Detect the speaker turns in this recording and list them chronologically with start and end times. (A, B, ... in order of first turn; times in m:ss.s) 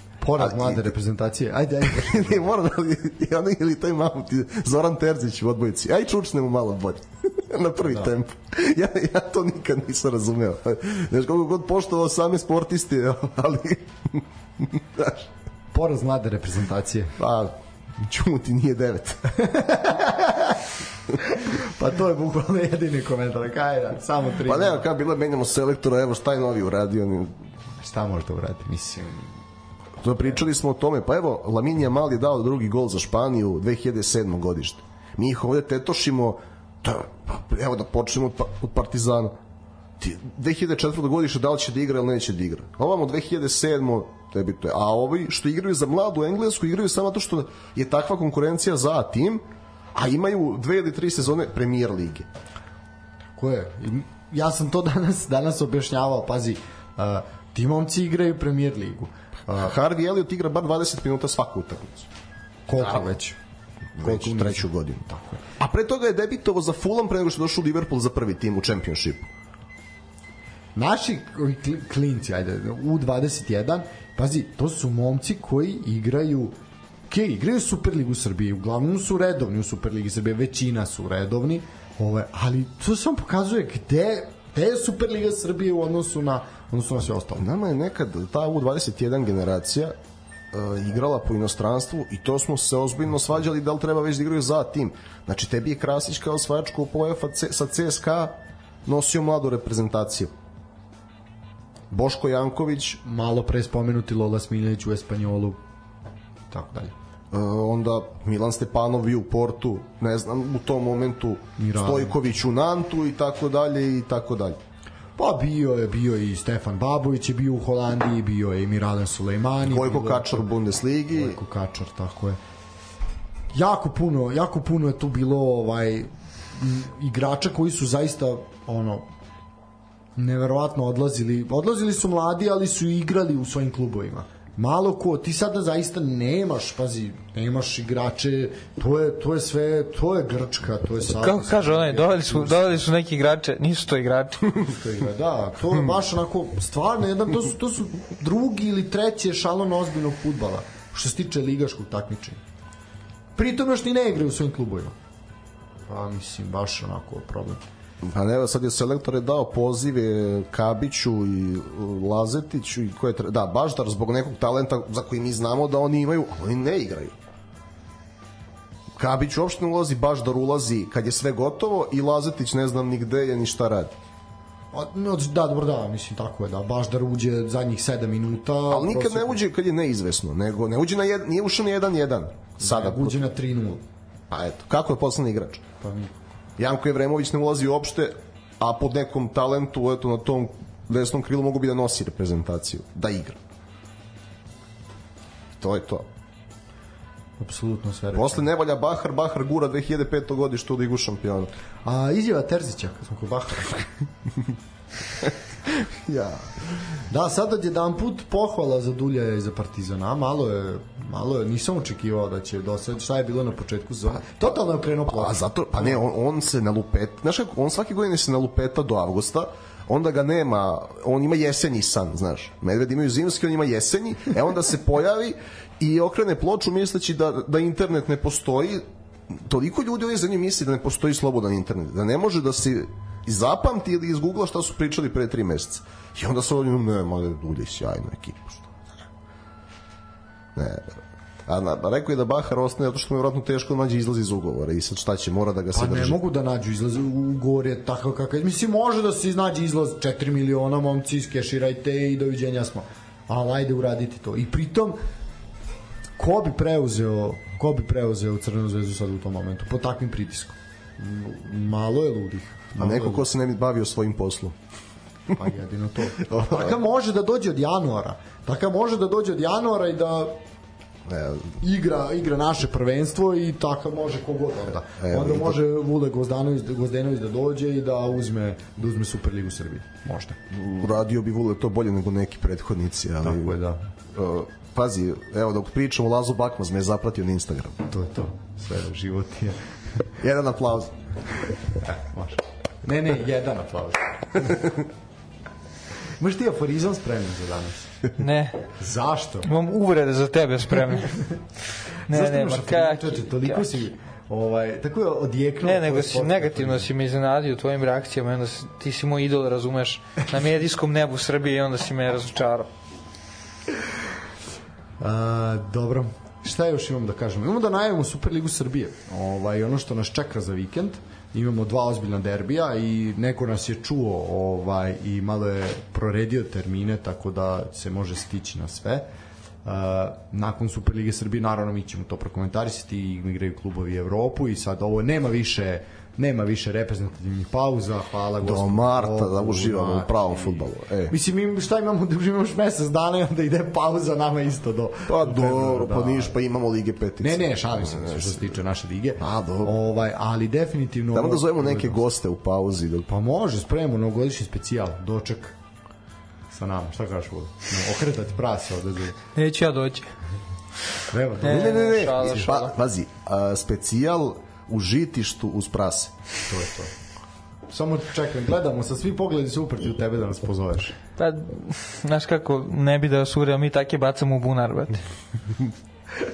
0:00.2-0:02.4 A
0:00.4-0:00.9 B
0:01.8-0:15.3 B
0:07.8-0:08.1 A
0:15.7-0:17.1 A
0:17.2-0:19.4 B
0:19.4-0:20.7 A
0:21.2-0:24.8 A
0:24.4-0:27.3 B
0:27.8-0:29.3 A
0:30.0-0:39.3 B
0:40.0-0:49.4 B
0:49.9-0:52.3 B
0:53.4-0:59.7 A
0:59.6-1:02.1 B
1:02.7-1:03.4 A
1:04.0-1:05.0 B
1:04.0-1:05.4 A
1:05.6-1:09.3 B
1:10.7-1:16.5 A
1:17.1-1:27.5 A
1:27.4-1:29.9 B
1:30.5-1:40.3 B
1:41.9-1:43.0 B
1:43.0-1:45.6 A
1:46.5-1:46.9 A
1:47.3-1:54.6 B
1:51.6-1:52.2 A
1:55.2-2:00.4 A
1:59.6-2:01.4 B
2:01.1-2:02.4 A
2:03.5-2:09.1 A
2:10.2-2:22.8 A
2:21.2-2:24.5 C
2:24.6-2:32.4 A
2:33.4-2:34.9 A
2:35.9-2:37.6 A
2:38.0-2:47.1 B
2:49.0-2:53.9 B
2:54.7-2:59.4 A
2:58.7-3:03.2 B
3:02.6-3:03.8 A
3:04.3-3:05.7 B
3:05.8-3:06.1 A
3:06.6-3:13.4 B
3:15.6-3:16.0 B
3:17.4-3:18.4 A
3:18.1-3:21.5 B
3:21.8-3:23.9 A
3:25.2-3:26.6 B
3:27.1-3:36.0 A
3:35.1-3:58.7 B
4:00.6-4:06.2 B
4:05.7-4:15.0 A
4:16.2-4:23.3 A
4:22.8-4:24.6 B
4:25.3-4:30.4 A
4:26.2-4:26.7 B
4:31.1-4:31.6 B
4:31.6-4:40.4 A
4:35.0-4:35.6 B
4:40.5-4:43.5 B
4:43.2-4:43.9 A
4:44.1-4:47.8 B
4:47.9-4:50.0 A
4:50.2-4:51.0 B
4:51.8-4:54.7 A
4:56.2-4:57.9 A
4:58.2-4:58.6 C
4:58.8-4:59.5 A
4:59.4-5:01.2 C
5:02.1-5:03.7 C
5:02.1-5:06.9 A
5:05.6-5:12.7 C
5:15.0-5:29.1 A
5:29.6-5:46.4 A
5:38.4-5:41.1 B
5:45.1-5:48.5 B
5:47.2-5:52.0 A
5:49.2-5:49.7 B
5:51.1-5:53.0 B
5:53.1-5:55.6 A
5:56.5-5:59.2 A
5:59.3-6:00.1 C
6:01.1-6:02.4 A
6:01.4-6:02.7 C
6:01.4-6:06.1 B
6:06.5-6:06.9 A
6:07.7-6:11.0 A
6:11.2-6:15.0 C